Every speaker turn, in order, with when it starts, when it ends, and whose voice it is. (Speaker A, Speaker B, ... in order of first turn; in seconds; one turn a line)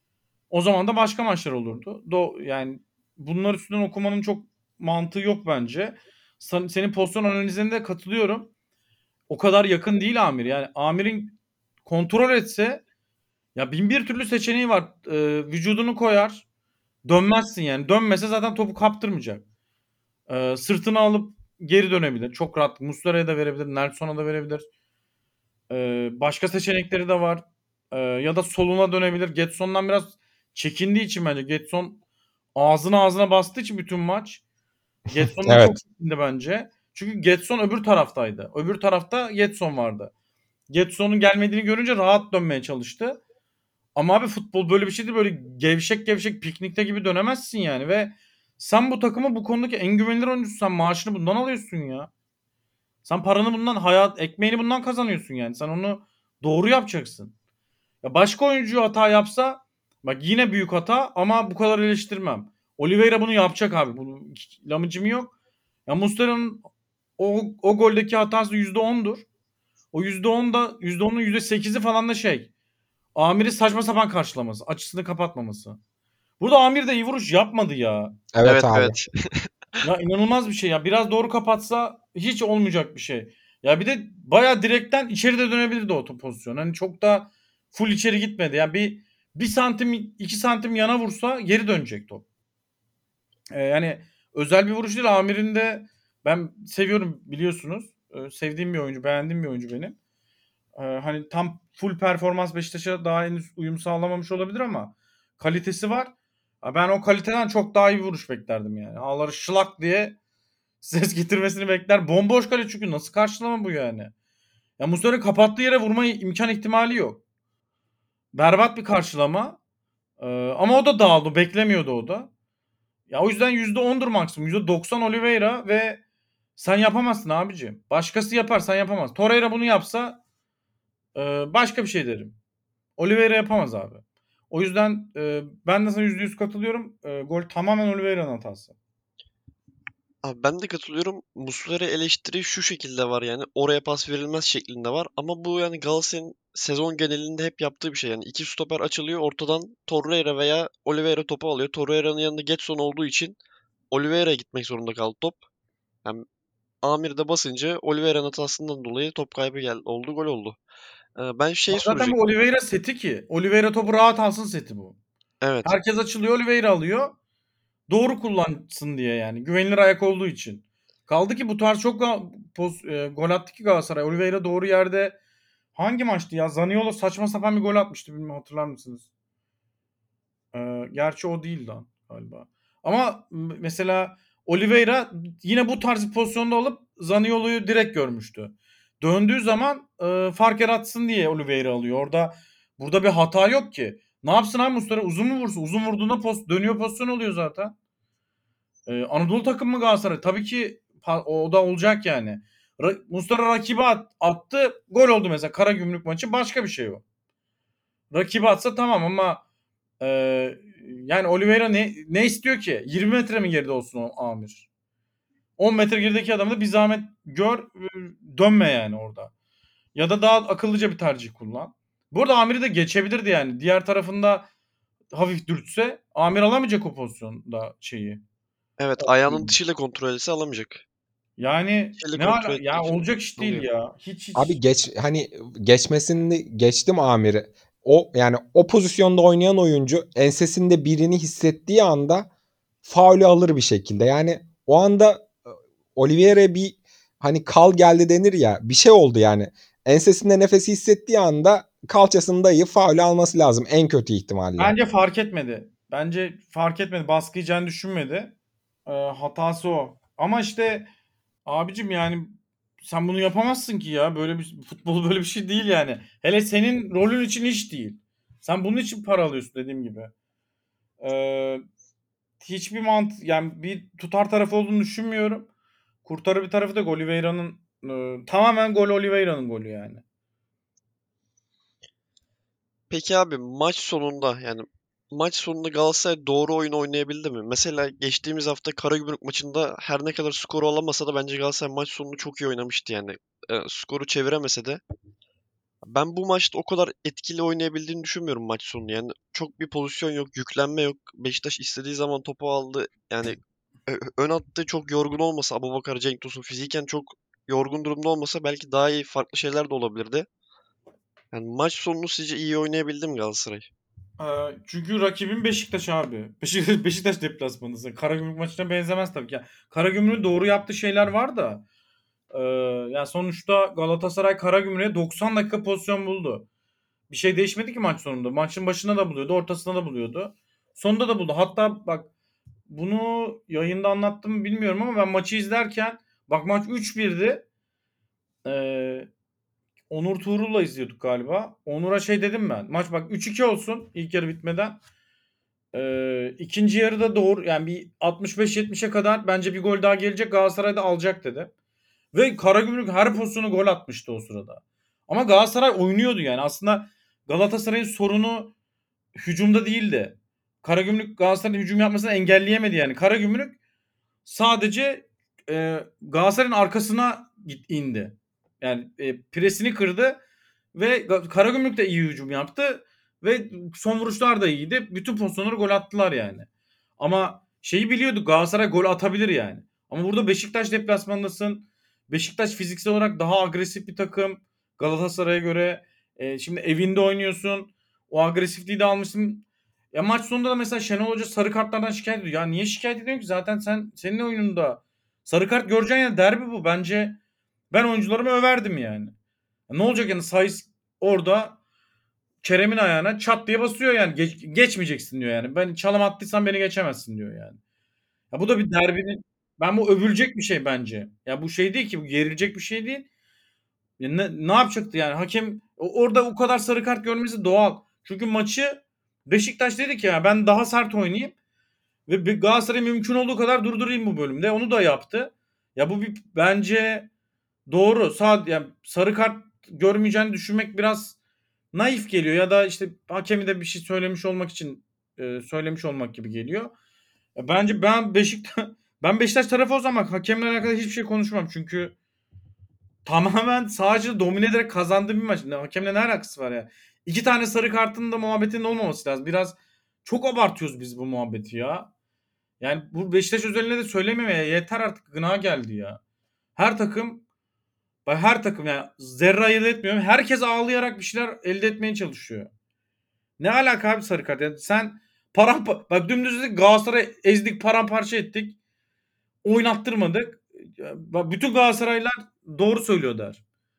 Speaker A: 0.5-8.5
Speaker A: 9.3-12.8
Speaker A: 13.5-16.4
Speaker A: 17.0-19.4
Speaker A: 20.3-24.6
Speaker A: 25.7-32.0
Speaker A: 32.5-34.4
Speaker A: 35.1-40.1
Speaker B: 35.4-35.8
Speaker A: 40.7-43.2
Speaker A: 43.9-52.1
Speaker A: 53.0-57.3
Speaker A: 58.0-65.3
Speaker A: 65.9-66.6
Speaker A: 67.2-69.2
Speaker A: 69.9-72.5
Speaker A: 73.1-75.8
Speaker A: 76.4-78.2
Speaker B: 78.3-78.9
Speaker C: 78.4-79.5
Speaker A: 79.8-92.2
Speaker A: 93.5-100.0
Speaker A: 100.8-110.2
Speaker A: 110.8-114.1
Speaker A: 114.8-117.2
Speaker A: 118.3-119.6
Speaker A: 120.2-122.3
Speaker A: 123.1-126.0
Speaker A: 126.5-130.2
Speaker A: 131.1-132.3
Speaker A: 133.0-138.7
Speaker C: 140.2-153.4
Speaker C: 153.9-155.4
Speaker C: 156.8-160.6
Speaker C: 161.2-162.2
Speaker A: 161.7-165.0
Speaker C: 165.4-165.7
Speaker A: 165.7-167.1
Speaker A: 167.9-175.2
Speaker A: 175.7-179.1
Speaker A: 180.5-197.7
Speaker A: 198.9-207.0
Speaker A: 208.1-209.4
Speaker A: 210.0-214.7
Speaker A: 215.6-219.3
Speaker A: 219.9-224.5
Speaker A: 225.1-228.2
Speaker C: 228.8-230.8
Speaker A: 229.0-229.5
Speaker A: 231.4-234.6
Speaker C: 232.0-233.7
Speaker B: 234.3-242.3
Speaker B: 242.8-245.4
Speaker B: 245.9-254.7
Speaker A: 254.6-258.3
Speaker A: 258.9-260.9
Speaker A: 261.4-270.1
Speaker A: 271.0-271.6
Speaker A: 272.4-275.5
Speaker A: 276.0-280.0
Speaker C: 282.9-294.8
Speaker C: 295.8-310.3
Speaker C: 311.3-313.7
Speaker A: 314.2-321.6
Speaker A: 322.3-326.5
Speaker A: 327.1-332.1
Speaker A: 332.7-337.4
Speaker A: 338.4-339.1
Speaker A: 339.9-344.8
Speaker A: 345.7-351.5
Speaker A: 352.1-358.5
Speaker A: 359.2-363.6
Speaker A: 364.2-370.2
Speaker A: 370.7-376.5
Speaker A: 377.0-397.2
Speaker A: 397.7-399.1
Speaker A: 399.7-401.6
Speaker A: 402.4-407.6
Speaker A: 408.3-413.1
Speaker A: 414.0-421.3
Speaker A: 422.1-427.1
Speaker A: 427.7-431.1
Speaker A: 431.7-436.7
Speaker A: 437.4-441.9
Speaker A: 443.0-451.9
Speaker A: 452.6-456.0
Speaker A: 456.6-457.2
Speaker A: 458.1-462.5
Speaker A: 463.4-468.6
Speaker A: 469.4-473.4